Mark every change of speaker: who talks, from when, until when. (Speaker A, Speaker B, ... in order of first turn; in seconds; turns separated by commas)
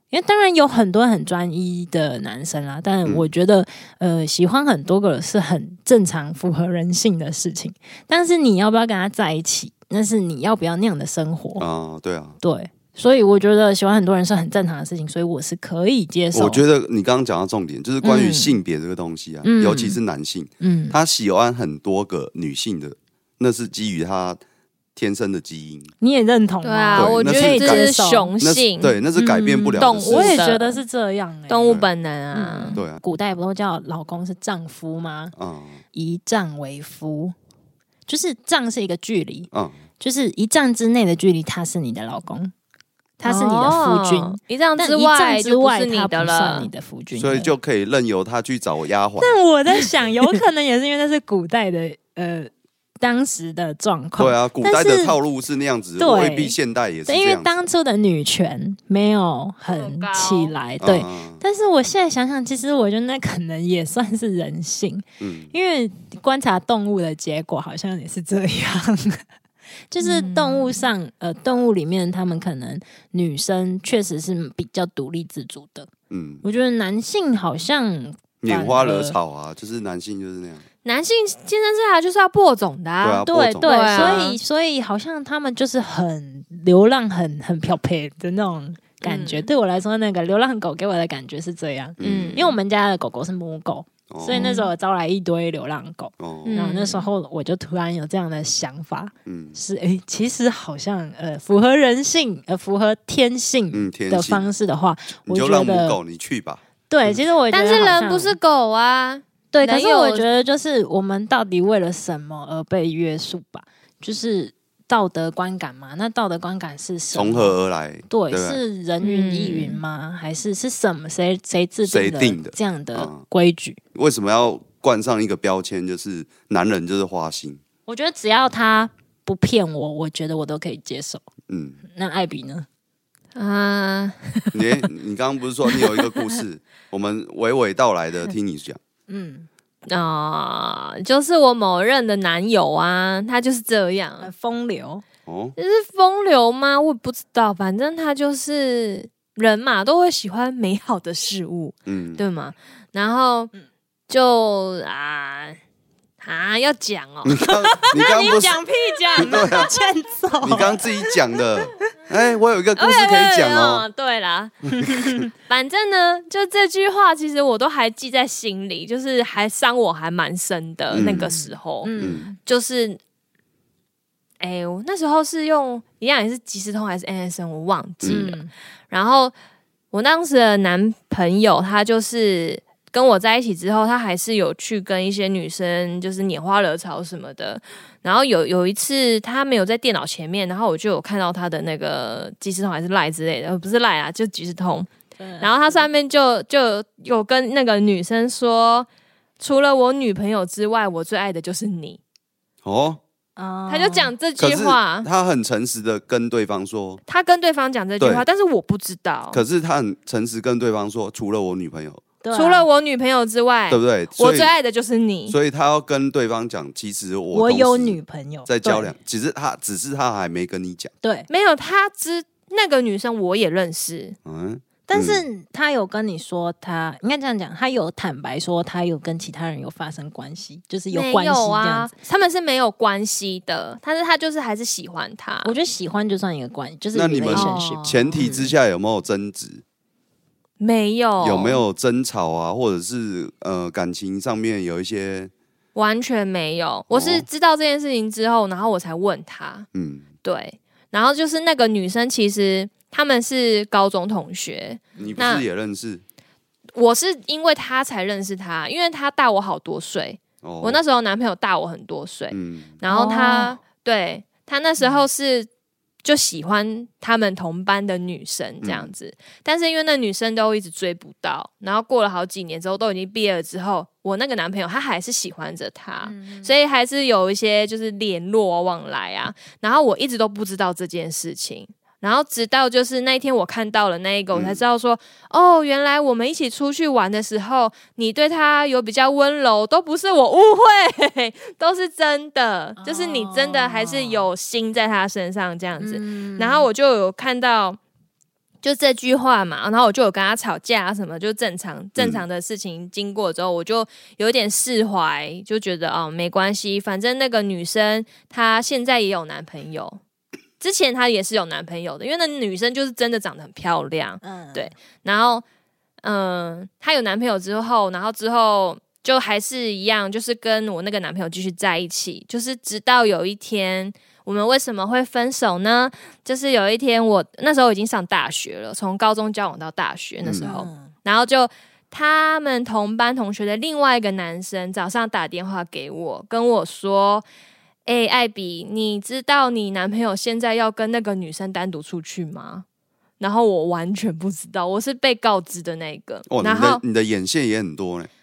Speaker A: 0.1-11.7, Speaker B: 3.0-3.3, Speaker B: 11.6-12.4, Speaker A: 12.4-16.6, Speaker B: 16.3-24.4, Speaker A: 18.0-18.6, Speaker A: 19.4-20.0, Speaker A: 20.6-21.0, Speaker B: 25.0-25.9, Speaker A: 26.0-28.3, Speaker C: 26.6-29.0, Speaker B: 27.0-27.9, Speaker B: 28.4-30.4, Speaker A: 29.1-31.8, Speaker C: 29.8-30.8, Speaker C: 31.5-32.8, Speaker A: 32.3-35.3, Speaker B: 32.7-33.0, Speaker B: 35.4-35.8, Speaker A: 35.9-37.4, Speaker A: 38.1-42.5, Speaker B: 39.5-39.8, Speaker A: 43.2-47.5, Speaker C: 43.2-46.7, Speaker B: 47.1-49.4, Speaker A: 49.2-55.2, Speaker B: 54.2-57.6, Speaker A: 56.0-56.5, Speaker A: 57.1-69.2, Speaker C: 59.7-60.5, Speaker B: 60.8-61.4, Speaker B: 65.2-65.5, Speaker A: 69.9-75.9, Speaker C: 70.0-70.8, Speaker B: 76.1-76.4, Speaker A: 76.4-79.2, Speaker B: 78.4-80.7, Speaker C: 80.8-84.4, Speaker B: 83.0-84.3, Speaker A: 83.2-106.0, Speaker C: 89.0-89.5, Speaker B: 92.0-92.4, Speaker C: 92.0-92.6, Speaker B: 94.1-94.5, Speaker C: 94.3-94.7, Speaker B: 96.2-96.6, Speaker C: 96.5-97.1, Speaker B: 99.3-99.6, Speaker B: 103.7-104.5, Speaker B: 105.3-107.2, Speaker A: 106.9-108.4, Speaker C: 107.5-110.3, Speaker A: 109.5-117.6, Speaker B: 117.1-118.6, Speaker A: 118.1-123.8, Speaker C: 119.0-119.8, Speaker B: 121.9-123.2, Speaker B: 124.0-127.6, Speaker A: 127.9-131.2, Speaker B: 131.5-131.8, Speaker A: 131.9-132.7, Speaker C: 133.3-134.6, Speaker B: 134.5-138.8, Speaker C: 135.8-136.1, Speaker A: 139.1-139.5, Speaker C: 139.9-144.3, Speaker A: 144.2-145.0, Speaker B: 145.3-145.6, Speaker C: 145.6-153.5, Speaker B: 151.9-152.2, Speaker C: 154.1-155.6, Speaker C: 156.2-159.7, Speaker B: 157.2-158.6, Speaker A: 158.8-160.9, Speaker B: 159.2-159.7, Speaker B: 160.4-163.8, Speaker C: 162.8-164.7, Speaker B: 164.8-165.3, Speaker C: 165.3-173.0, Speaker B: 170.9-171.3, Speaker A: 171.0-172.4, Speaker B: 172.0-172.3, Speaker C: 174.4-179.3, Speaker A: 178.1-178.5, Speaker C: 179.9-194.9, Speaker A: 195.2-195.9, Speaker C: 195.4-198.9, Speaker C: 199.4-202.0, Speaker B: 202.6-203.0, Speaker A: 203.4-204.1, Speaker C: 203.7-205.1, Speaker B: 204.4-207.0, Speaker C: 207.1-209.4, Speaker B: 208.0-208.3, Speaker B: 209.3-212.0, Speaker A: 212.2-212.7, Speaker C: 212.3-215.4, Speaker B: 213.7-214.5, Speaker B: 215.3-220.9, Speaker A: 217.3-218.9, Speaker A: 221.0-221.3, Speaker C: 221.3-224.2, Speaker B: 224.2-225.2, Speaker A: 224.9-231.9, Speaker C: 230.9-235.5, Speaker A: 235.4-238.5, Speaker B: 236.9-239.6, Speaker C: 237.3-238.2, Speaker C: 240.6-241.6, Speaker B: 241.2-245.3, Speaker C: 245.8-249.7, Speaker B: 246.9-247.3, Speaker B: 249.7-250.1, Speaker C: 250.2-255.4, Speaker B: 255.0-256.0, Speaker C: 256.8-265.5, Speaker B: 260.4-260.8, Speaker B: 262.3-262.8, Speaker A: 262.9-263.6, Speaker C: 266.0-297.8, Speaker B: 268.6-268.9, Speaker A: 276.0-276.5, Speaker B: 284.3-284.6, Speaker A: 292.8-294.3, Speaker A: 295.8-296.7, Speaker C: 298.6-310.0, Speaker B: 302.0-302.2, Speaker C: 310.6-315.4, Speaker A: 314.2-314.7, Speaker C: 316.0-337.2, Speaker B: 330.2-330.5, Speaker A: 330.4-330.9, Speaker C: 337.9-342.6, Speaker C: 343.2-346.8, Speaker B: 346.3-348.1